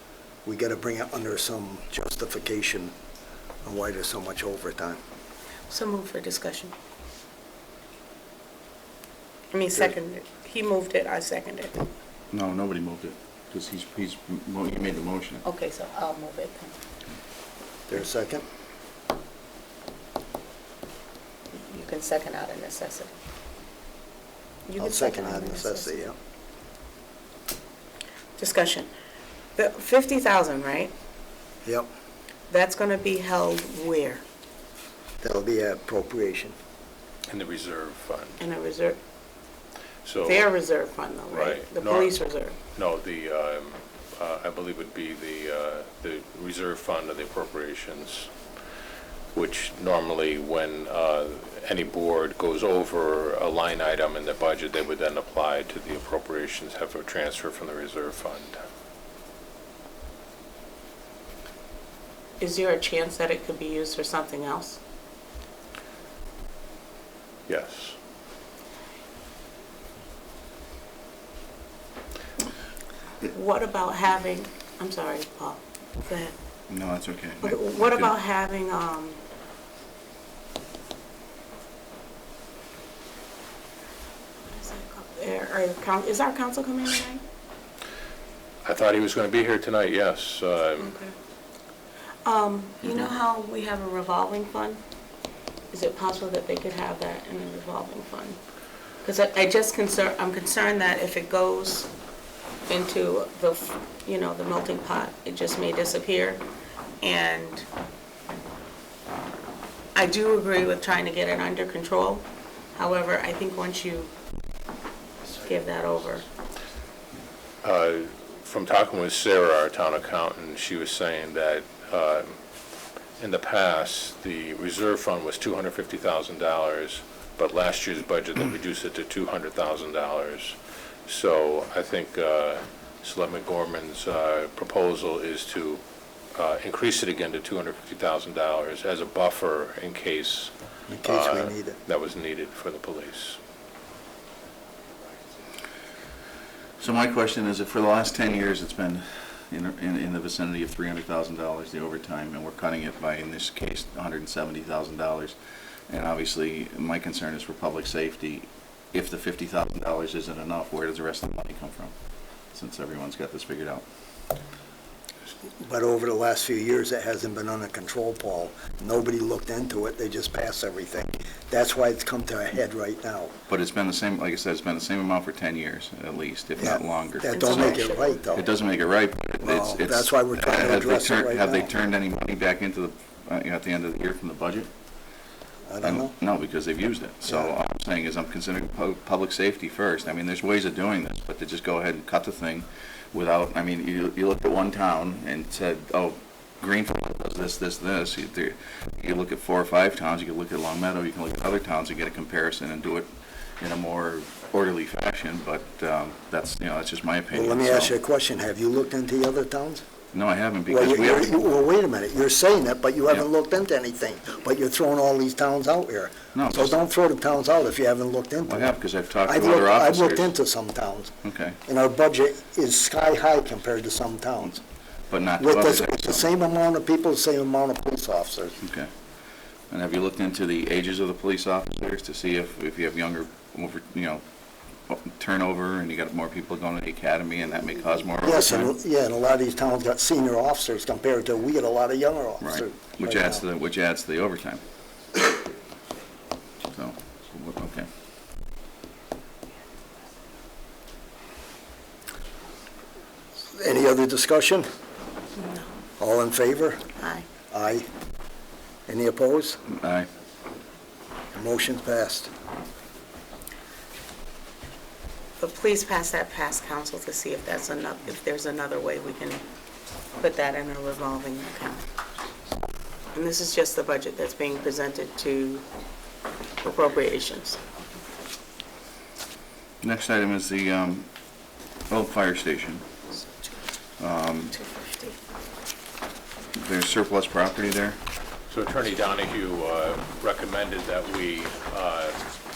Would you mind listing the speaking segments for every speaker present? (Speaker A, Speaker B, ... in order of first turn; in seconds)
Speaker A: 0.5-2.9, 3.6-5.0, 17.9-18.4, 24.8-26.1, 35.2-36.5, 140.9-141.8, 165.6-173.3, 176.6-178.5, 179.4-181.7, 185.7-186.1, 187.3-187.5, 207.3-209.8, 210.7-218.7, 219.2-221.1, 221.7-224.6, 225.4-228.6, 238.2-243.4, 253.5-254.7, 256.0-256.8, 257.5-257.9, 258.9-259.6, 261.3-262.3
Speaker B: 5.7-6.7, 9.5-11.9, 15.4-16.8, 21.5-23.1, 24.7-26.0, 28.4-28.9, 29.6-30.9, 32.5-34.2, 38.4-39.0, 40.2-42.6, 62.4-64.8, 73.2-76.3, 77.4-79.2, 84.5-87.2, 90.8-91.1, 92.2-94.8, 95.7-98.4, 99.0-101.9, 102.7-106.4, 107.0-107.7, 110.0-114.1, 115.3-116.3, 177.3-178.5, 255.4-255.7, 257.0-257.3, 265.4-269.4, 270.2-271.9, 273.1-275.6, 276.6-277.6, 284.5-285.2
Speaker C: 12.3-15.4, 76.7-78.1, 146.8-155.4, 155.9-161.9, 162.5-163.8, 173.5-184.7, 185.8-208.0, 210.1-211.4, 216.3-216.8, 218.5-220.3, 221.2-221.6, 225.1-226.3, 228.6-228.9, 229.7-234.2, 234.9-238.8, 242.4-244.6, 246.7-247.9, 259.7-260.1, 279.8-281.1, 281.9-282.8, 284.0-284.6, 286.6-288.0
Speaker D: 37.3-38.4, 40.0-40.5, 41.3-48.3, 49.3-58.6, 67.5-68.0, 88.6-91.0, 117.6-122.4, 123.2-135.8, 136.3-140.5, 141.0-143.4, 288.5-292.2